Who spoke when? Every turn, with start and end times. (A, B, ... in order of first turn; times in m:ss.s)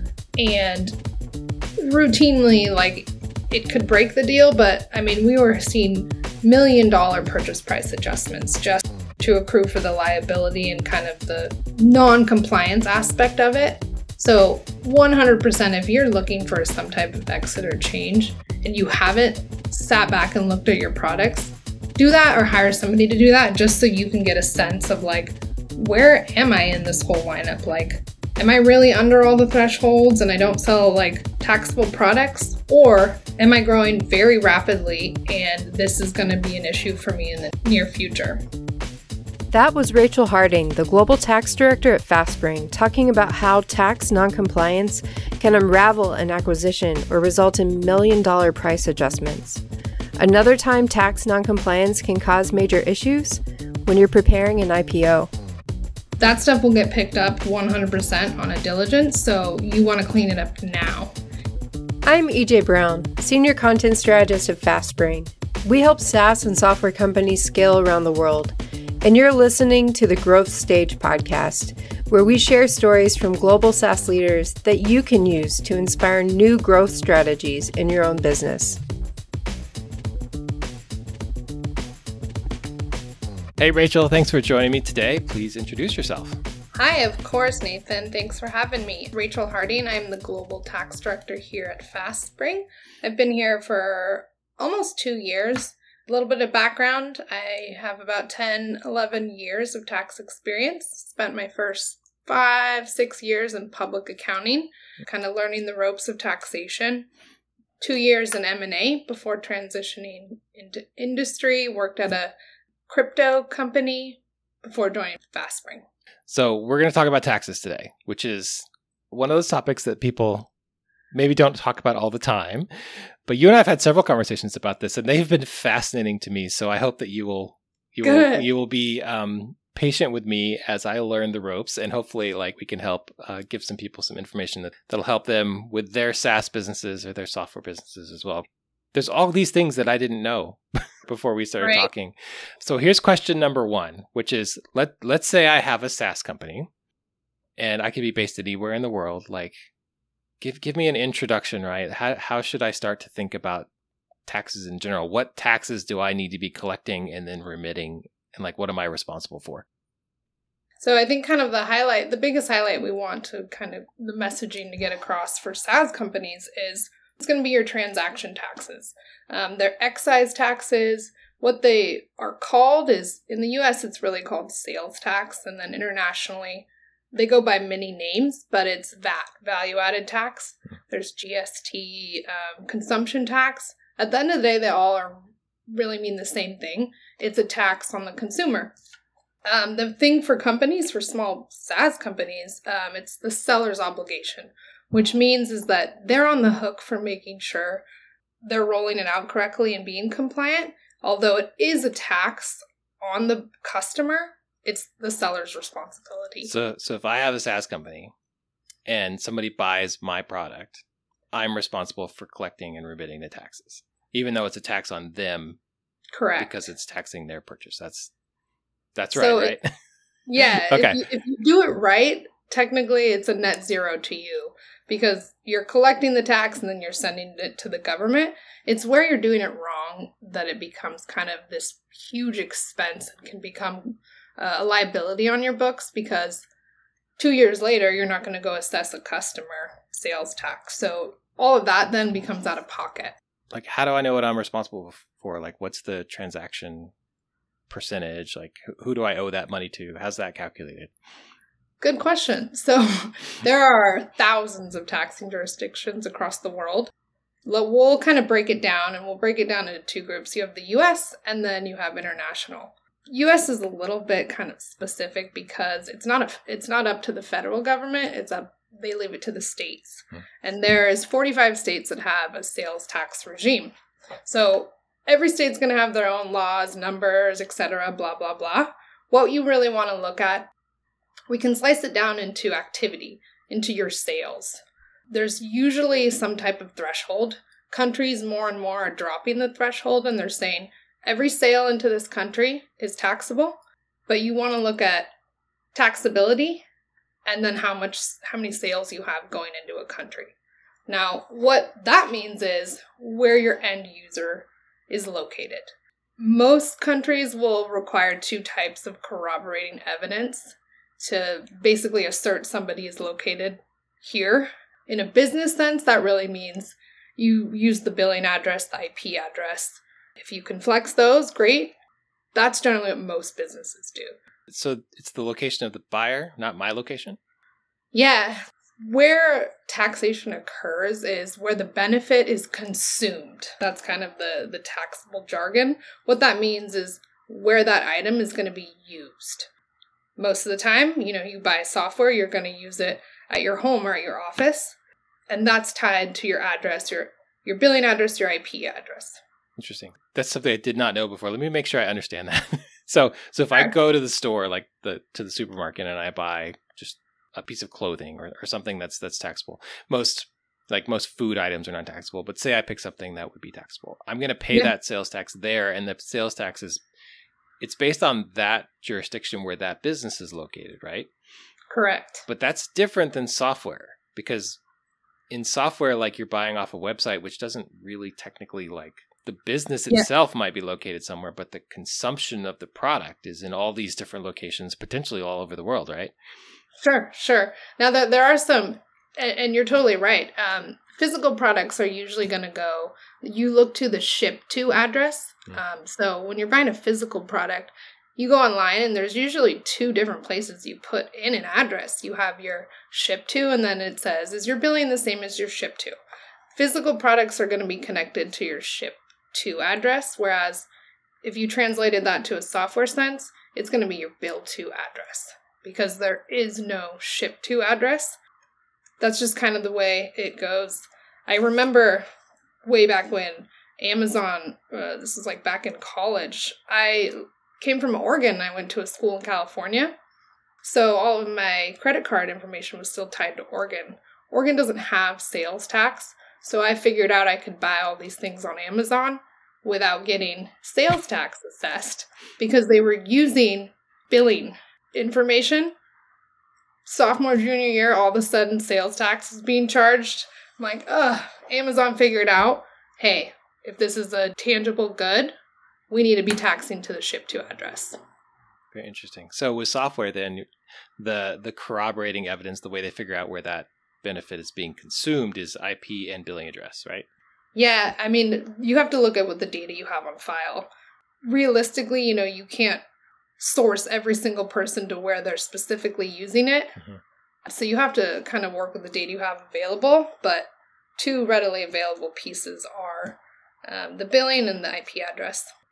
0:00.4-0:01.0 A
0:01.8-0:38.4 A
0:39.5-0:49.6 B
0:50.2-0:55.3 B
0:56.2-1:01.1 A
1:02.0-1:18.8 B
1:23.6-1:26.4 C
1:26.8-1:47.1 A
1:47.8-1:52.3 A
1:52.9-1:55.8 A
1:56.3-2:00.5 C
2:01.1-2:26.7 C
2:08.0-2:08.5 A
2:21.6-2:21.9 A
2:27.6-2:29.6 C
2:30.4-2:33.7 C
2:34.2-2:39.6 C
2:40.8-3:08.7 A
3:09.4-3:17.8 A
3:18.4-3:26.5 A
3:26.4-3:28.1 C
3:28.8-3:35.6 C
3:36.1-3:36.5 A
3:36.4-3:38.1 C
3:39.0-3:39.6 C
3:39.1-3:39.6 A
3:40.3-3:56.4 A
3:40.4-3:41.0 C
3:57.2-4:03.1 A
4:03.5-4:06.9 C
4:07.7-4:10.9 C
4:11.8-4:16.9 A
4:17.4-4:33.7 A
4:34.2-4:40.5 A
4:41.3-4:55.1 A
4:55.7-4:56.6 A
4:57.3-5:00.3 A
5:00.9-5:21.7 A
5:22.3-5:24.2 A
5:24.5-5:27.2 C
5:27.9-5:39.5 A
5:40.2-5:44.8 A
5:45.3-5:49.2 A
5:49.6-6:06.8 C
6:07.6-6:11.1 C
6:11.7-6:12.2 A
6:12.3-6:14.6 C
6:15.3-6:26.1 C
6:26.8-6:46.0 A
6:46.5-6:50.7 A
6:51.2-6:58.2 A
6:59.0-7:02.0 A
7:02.6-7:09.9 A
7:10.6-7:25.7 A
7:26.8-7:35.3 A
7:35.9-7:38.0 A
7:38.7-7:47.1 C
7:47.5-7:50.7 A
7:51.2-7:52.8 A
7:53.4-7:56.8 A
7:57.4-8:05.5 A